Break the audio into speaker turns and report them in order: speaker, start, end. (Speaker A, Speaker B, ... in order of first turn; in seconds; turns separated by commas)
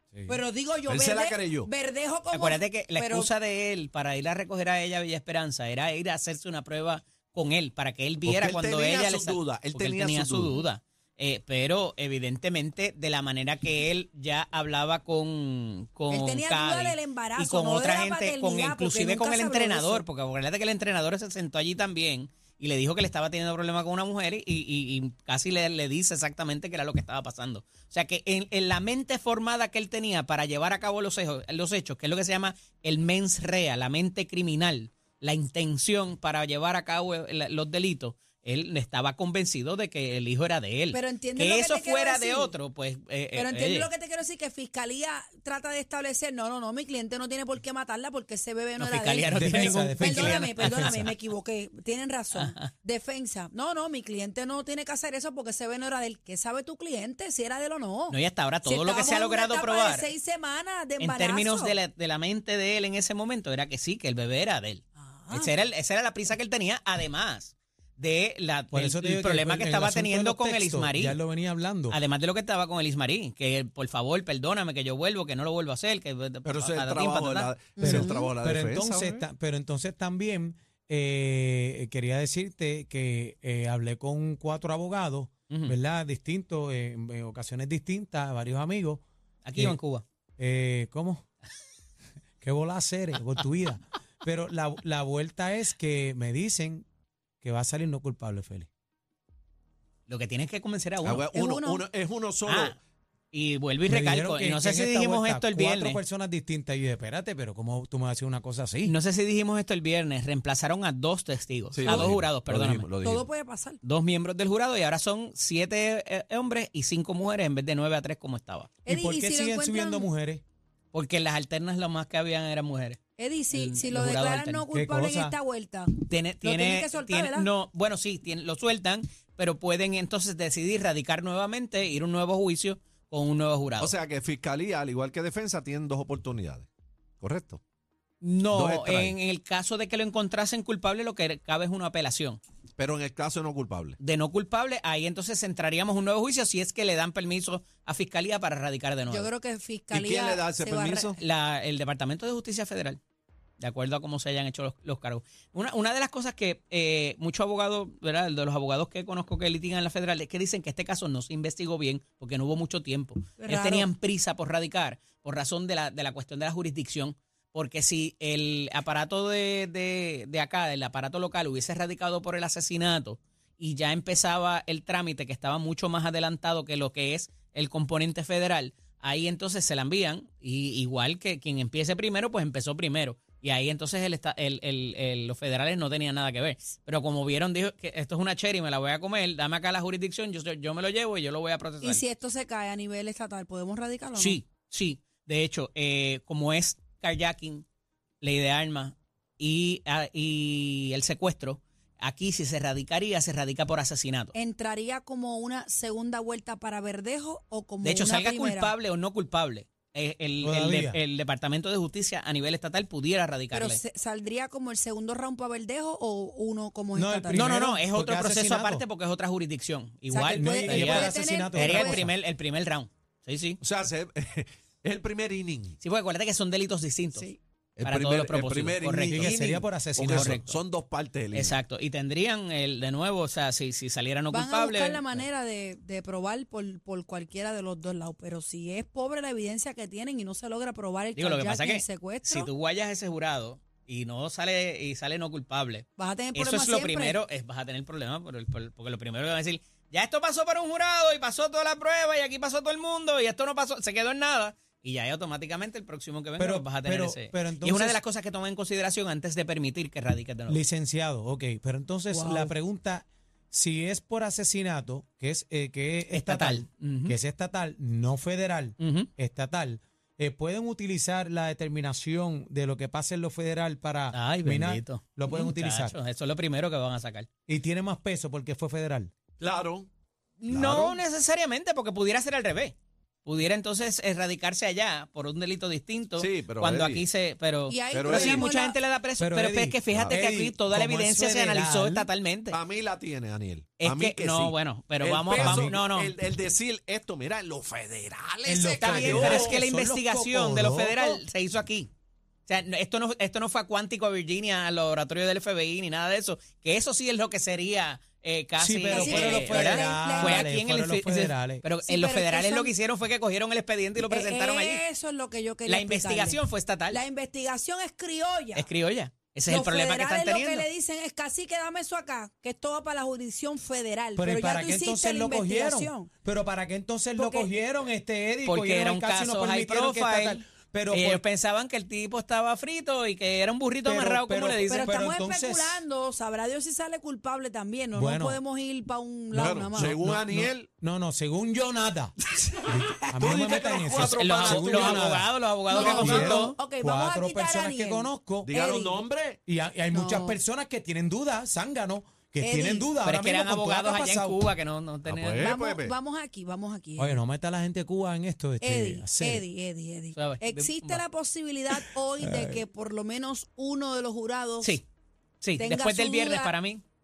Speaker A: 0.3-3.3, Speaker B: 0.9-1.7, Speaker C: 2.3-43.9, Speaker B: 8.2-10.6, Speaker A: 16.1-20.1, Speaker A: 40.9-42.5, Speaker A: 43.3-61.8, Speaker C: 48.8-51.1, Speaker D: 49.3-51.1, Speaker C: 52.3-52.7, Speaker C: 58.1-60.1, Speaker C: 61.0-71.2, Speaker A: 65.0-65.5, Speaker D: 68.7-72.0, Speaker C: 71.9-77.5, Speaker B: 76.5-79.2, Speaker A: 77.8-78.3, Speaker D: 77.8-89.0, Speaker C: 85.5-85.8, Speaker C: 89.5-90.0, Speaker D: 90.4-91.2, Speaker D: 92.4-96.9, Speaker D: 97.4-98.7, Speaker C: 100.1-101.2, Speaker B: 101.0-102.8, Speaker A: 101.3-101.8, Speaker C: 102.5-102.8, Speaker C: 103.3-106.0, Speaker D: 103.9-108.9, Speaker C: 108.8-112.9, Speaker B: 111.7-113.2, Speaker A: 113.0-113.8, Speaker C: 113.8-118.7, Speaker A: 118.8-120.1, Speaker D: 118.9-120.4, Speaker C: 120.9-123.0, Speaker A: 123.2-127.5, Speaker C: 123.5-124.6, Speaker D: 124.7-125.4, Speaker C: 126.0-133.9, Speaker B: 133.8-136.7, Speaker B: 137.2-137.6, Speaker C: 138.2-142.4, Speaker B: 138.5-139.2, Speaker B: 142.8-144.0, Speaker C: 144.0-149.3, Speaker A: 149.1-151.1, Speaker B: 149.9-151.2, Speaker C: 151.2-153.0, Speaker C: 153.6-192.1, Speaker A: 163.4-163.9, Speaker A: 191.8-194.4, Speaker C: 194.2-197.7, Speaker C: 198.2-204.3, Speaker A: 204.3-208.7, Speaker C: 207.8-213.8, Speaker D: 210.4-211.0, Speaker A: 213.5-217.6, Speaker D: 216.9-218.8, Speaker C: 217.3-223.6, Speaker A: 220.1-222.1, Speaker D: 220.3-222.1, Speaker B: 223.6-225.8, Speaker C: 225.8-227.3, Speaker A: 227.1-227.4, Speaker B: 227.8-231.6, Speaker C: 227.8-230.6, Speaker D: 229.1-230.4, Speaker C: 231.3-235.3, Speaker A: 234.3-242.5, Speaker C: 241.2-260.6, Speaker A: 246.0-247.2, Speaker D: 256.4-258.0, Speaker D: 260.5-276.0, Speaker A: 262.1-262.5, Speaker C: 266.1-267.2, Speaker C: 268.8-269.1, Speaker C: 274.1-277.3, Speaker D: 277.5-279.1, Speaker B: 279.4-279.9, Speaker C: 280.4-292.6, Speaker B: 280.5-281.0, Speaker B: 286.2-287.0, Speaker A: 287.7-288.8, Speaker B: 287.9-288.4, Speaker D: 288.1-288.5, Speaker D: 289.2-292.1, Speaker B: 289.9-290.2, Speaker B: 292.5-299.6, Speaker C: 293.8-296.2, Speaker D: 295.3-295.8, Speaker D: 298.5-301.2, Speaker C: 298.6-301.9, Speaker C: 302.5-314.8, Speaker D: 308.6-311.6, Speaker A: 308.9-310.5, Speaker A: 311.8-312.7, Speaker A: 314.0-318.7, Speaker C: 315.7-317.0, Speaker C: 318.6-320.7, Speaker A: 319.5-326.1, Speaker D: 324.2-331.2, Speaker A: 327.2-327.5, Speaker C: 328.4-334.9, Speaker D: 333.9-335.8, Speaker A: 334.7-340.0, Speaker D: 337.9-338.4, Speaker B: 339.3-340.7, Speaker D: 339.8-342.1, Speaker D: 342.7-348.5, Speaker B: 343.1-345.1, Speaker C: 343.2-346.6, Speaker A: 345.7-349.0, Speaker B: 348.4-349.4, Speaker D: 349.5-354.4, Speaker A: 349.9-350.4, Speaker A: 352.4-352.9, Speaker C: 353.0-355.5, Speaker B: 355.1-355.9, Speaker A: 355.4-357.2, Speaker D: 357.0-359.4, Speaker A: 358.6-364.8, Speaker C: 360.1-361.0, Speaker D: 362.2-362.6, Speaker C: 365.4-366.8, Speaker A: 365.6-366.5